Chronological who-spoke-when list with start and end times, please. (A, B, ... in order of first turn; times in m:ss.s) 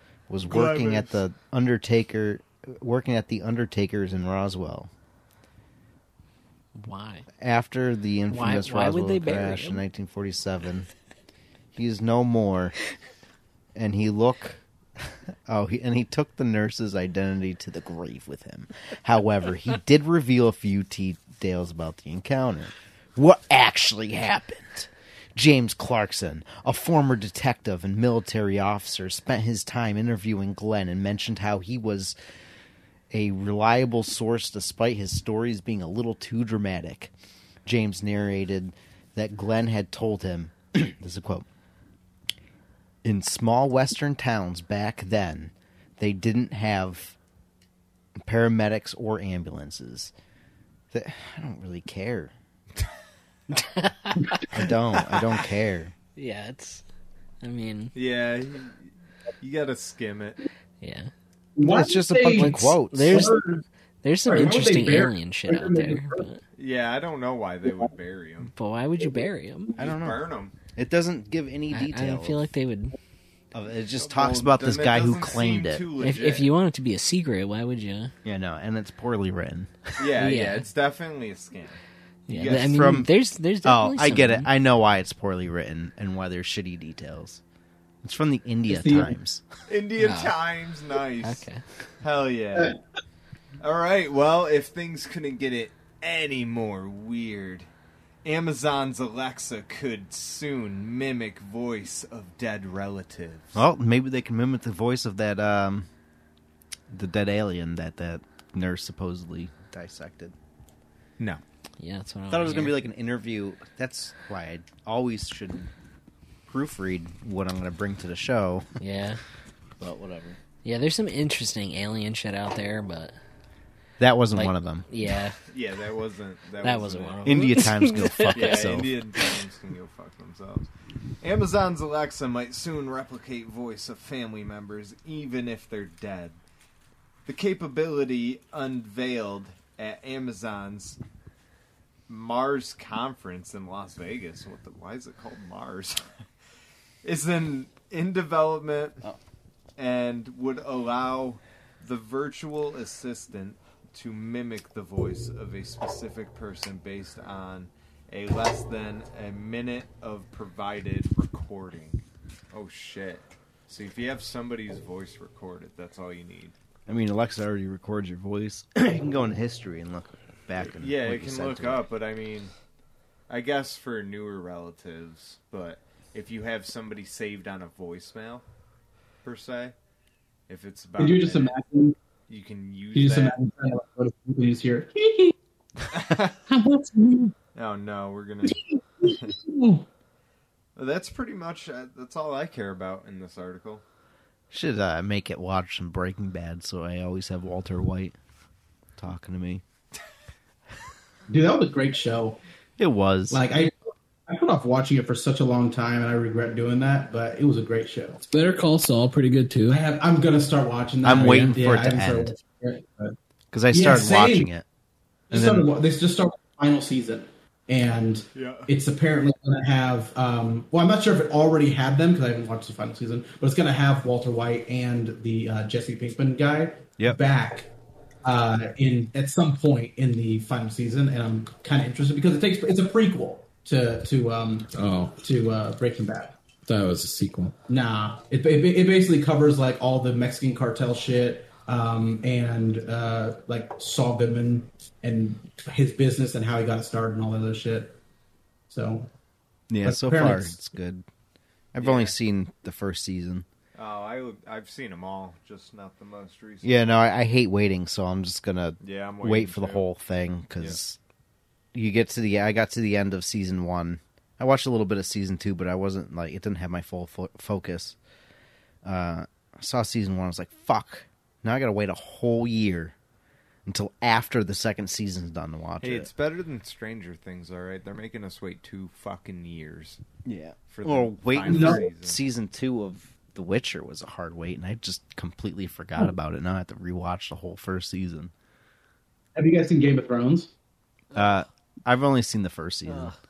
0:00.3-0:04.9 A
0:00.5-0:01.2 B
0:06.8-0:07.2 C
0:07.4-0:10.9 A
0:08.3-0:09.8 C
0:11.7-0:12.8 A
0:13.7-0:32.2 A
0:33.1-0:37.1 A
0:37.6-0:41.4 A
0:43.0-0:47.2 A
0:48.2-0:50.1 A
0:50.9-0:52.3 A
0:53.6-0:54.5 C
0:54.4-0:55.9 A
0:56.2-0:56.8 C
0:57.4-0:57.9 C
0:57.9-1:00.4 B
1:00.8-1:01.1 C
1:01.6-1:02.6 D
1:01.6-1:03.3 A
1:02.2-1:03.4 C
1:03.1-1:03.6 D
1:04.0-1:06.4 C
1:04.2-1:06.2 D
1:06.5-1:08.5 B
1:08.5-1:09.7 C
1:09.7-1:10.5 B
1:09.8-1:12.4 A
1:11.7-1:13.0 C
1:13.5-1:15.9 A
1:14.0-1:16.5 B
1:16.0-1:18.1 C
1:18.2-1:19.9 A
1:20.0-1:21.8 B
1:20.2-1:20.6 C
1:22.3-1:24.5 C
1:22.4-1:23.1 A
1:23.6-1:27.4 A
1:28.0-1:29.4 A
1:28.7-1:29.2 D
1:29.7-1:31.4 B
1:30.0-1:30.3 C
1:31.2-1:31.6 C
1:32.0-1:32.8 B
1:33.6-1:37.7 B
1:38.2-1:43.6 B
1:43.5-1:45.9 A
1:46.9-1:50.4 A
1:51.8-1:52.8 C
1:52.3-1:55.7 A
1:56.5-1:58.7 A
1:58.8-1:59.2 C
1:59.8-2:00.4 A
2:00.6-2:03.1 C
2:04.0-2:04.9 A
2:04.3-2:05.4 C
2:05.5-2:07.6 B
2:06.6-2:08.6 C
2:07.2-2:08.9 A
2:08.3-2:10.7 B
2:11.2-2:16.4 B
2:17.2-2:21.0 B
2:22.1-2:26.1 B
2:27.0-2:29.1 B
2:29.8-2:42.0 B
2:42.5-2:46.5 B
2:46.9-2:51.8 A
2:50.7-2:52.5 B
2:53.3-2:58.4 B
2:59.2-2:59.7 B
3:00.5-3:01.5 B
3:01.0-3:02.0 D
3:02.3-3:03.3 B
3:02.9-3:05.3 D
3:05.9-3:06.4 B
3:06.5-3:07.3 E
3:07.5-3:09.4 B
3:09.0-3:09.8 D
3:10.8-3:13.8 B
3:14.5-3:18.2 A
3:19.0-3:19.6 A
3:21.3-3:22.4 D
3:22.8-3:23.4 A
3:23.3-3:28.2 D
3:28.2-3:29.8 E
3:29.7-3:33.2 D
3:31.0-3:32.3 A
3:31.2-3:31.5 E
3:33.5-3:34.6 A
3:33.7-3:34.5 D
3:35.3-3:47.7 D
3:35.3-3:35.7 A
3:38.3-3:38.7 B
3:48.2-3:56.4 D
3:54.7-3:55.2 E
3:56.7-3:57.5 E
3:57.7-4:08.0 D
4:08.7-4:09.1 D
4:09.7-4:11.0 A
4:09.8-4:10.6 D
4:11.7-4:13.4 A
4:11.8-4:12.2 B
4:13.7-4:16.8 B
4:16.6-4:21.0 A
4:18.8-4:19.8 B
4:21.7-4:28.0 A
4:28.8-4:32.9 A
4:33.6-4:36.1 A
4:35.8-4:40.0 B
4:40.2-4:48.3 A
4:40.7-4:42.2 B
4:41.4-4:41.8 D
4:49.3-4:50.5 D
4:51.1-4:53.1 A
4:52.9-4:53.2 C